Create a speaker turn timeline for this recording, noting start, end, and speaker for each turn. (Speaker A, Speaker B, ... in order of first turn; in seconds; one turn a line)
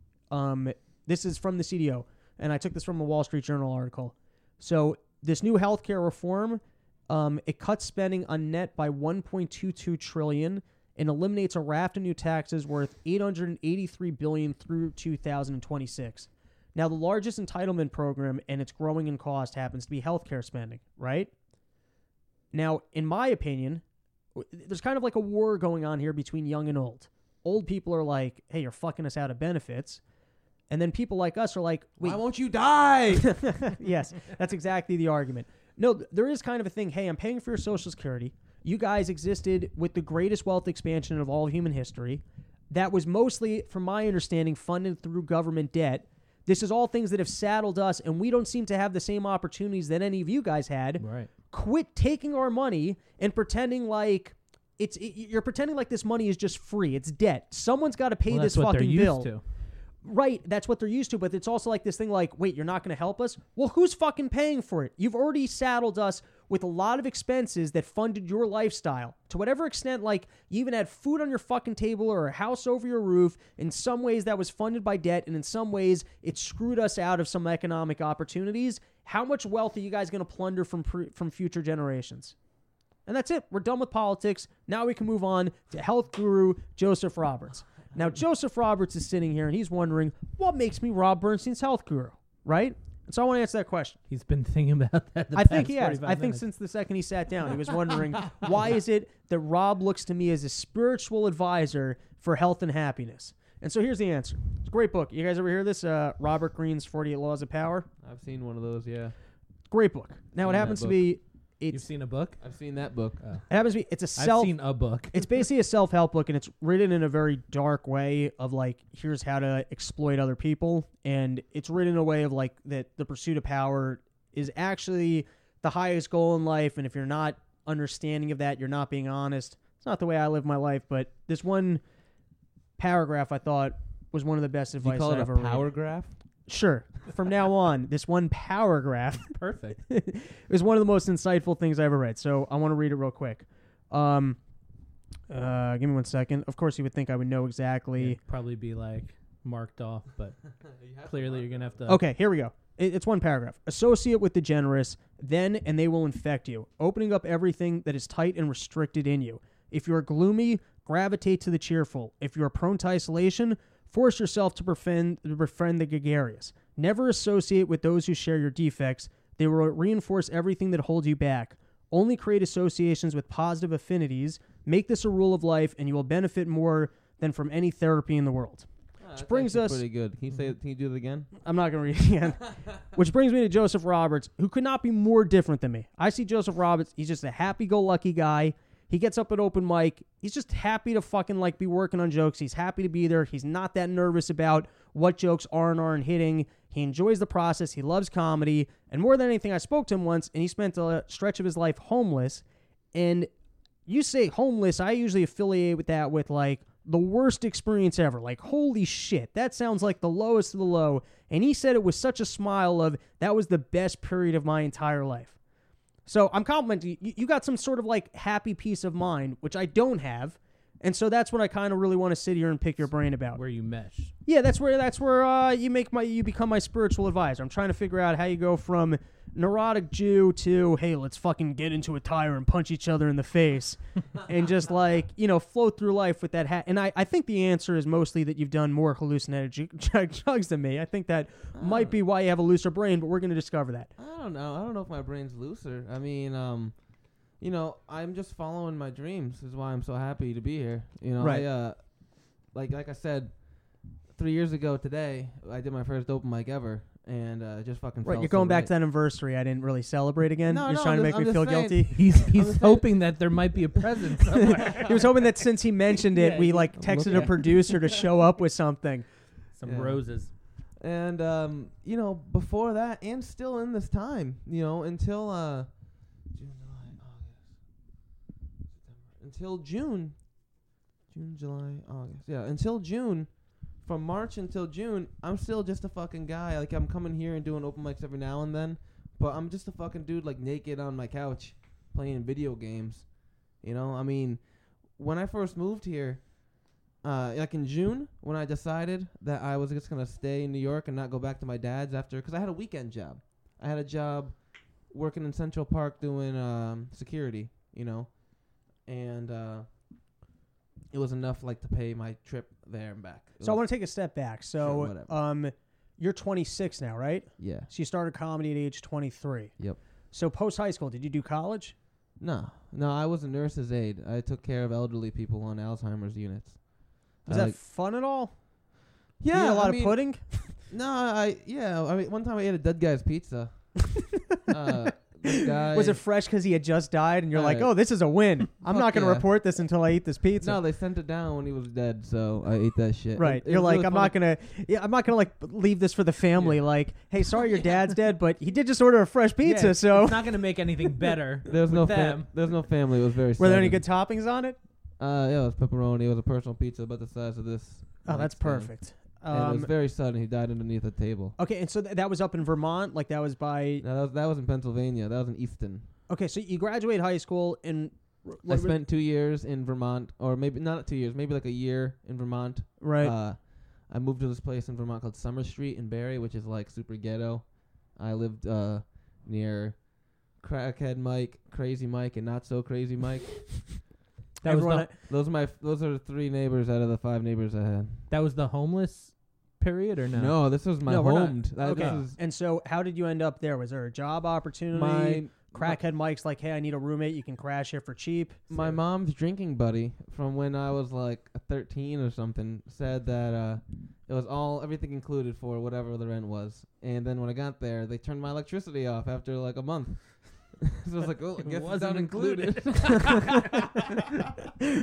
Speaker A: 0.3-21.3
Speaker A: 22.5-23.8
Speaker A: 24.3-30.0
Speaker A: 30.7-32.2
Speaker B: 32.0-33.4
Speaker A: 33.1-59.3
Speaker C: 51.0-51.3
Speaker C: 58.3-59.4
Speaker A: 60.0-82.3
Speaker A: 83.0-94.0
Speaker C: 94.1-96.4
Speaker A: 95.3-107.9
Speaker B: 108.0-109.1
Speaker A: 109.7-111.8
Speaker B: 110.4-111.0
Speaker C: 111.7-112.4
Speaker B: 112.4-113.2
Speaker A: 113.5-114.6
Speaker C: 114.2-115.3
Speaker A: 115.1-131.8
Speaker A: 132.8-135.7
Speaker B: 134.8-136.1
Speaker A: 136.5-144.4
Speaker C: 139.3-139.8
Speaker A: 145.3-148.2
Speaker C: 148.0-150.4
Speaker B: 150.5-151.8
Speaker C: 151.0-152.0
Speaker A: 151.8-179.8
Speaker B: 179.0-181.3
Speaker A: 181.4-203.3
Speaker A: 203.8-215.3
Speaker A: 216.1-223.4
Speaker C: 223.3-224.1
Speaker A: 224.2-243.9
Speaker B: 241.5-242.0
Speaker B: 244.0-246.8
Speaker B: 247.3-258.7
Speaker A: 251.2-251.5
Speaker A: 258.0-262.0
Speaker B: 260.5-263.0
Speaker C: 261.9-265.3
Speaker A: 264.5-269.1
Speaker C: 266.1-267.9
Speaker B: 266.8-267.4
Speaker C: 269.5-270.3
Speaker B: 269.6-270.1
Speaker B: 270.7-277.6
Speaker B: 278.7-280.6
Speaker B: 281.1-309.7
Speaker B: 310.9-313.7
Speaker A: 313.4-321.7
Speaker B: 314.6-315.1
Speaker B: 317.4-317.7
Speaker B: 322.2-327.6
Speaker A: 327.2-328.4
Speaker B: 329.2-336.0
Speaker A: 329.3-330.6
Speaker A: 335.3-340.6
Speaker B: 337.3-339.3
Speaker B: 340.4-344.1
Speaker A: 343.1-350.4
Speaker C: 346.4-346.6
Speaker C: 349.4-352.3
Speaker B: 351.5-353.9
Speaker A: 353.4-354.6
Speaker B: 355.0-361.4
Speaker A: 358.0-359.7
Speaker A: 361.4-363.8
Speaker B: 363.8-365.9
Speaker A: 366.1-368.8
Speaker B: 368.4-383.8
Speaker A: 372.8-373.1
Speaker A: 384.4-384.9
Speaker C: 384.4-384.9
Speaker B: 385.0-388.1
Speaker C: 388.1-390.4
Speaker B: 390.1-392.2
Speaker A: 390.8-398.7
Speaker C: 391.7-392.0
Speaker B: 394.7-395.8
Speaker B: 398.5-414.0
Speaker C: 411.4-413.6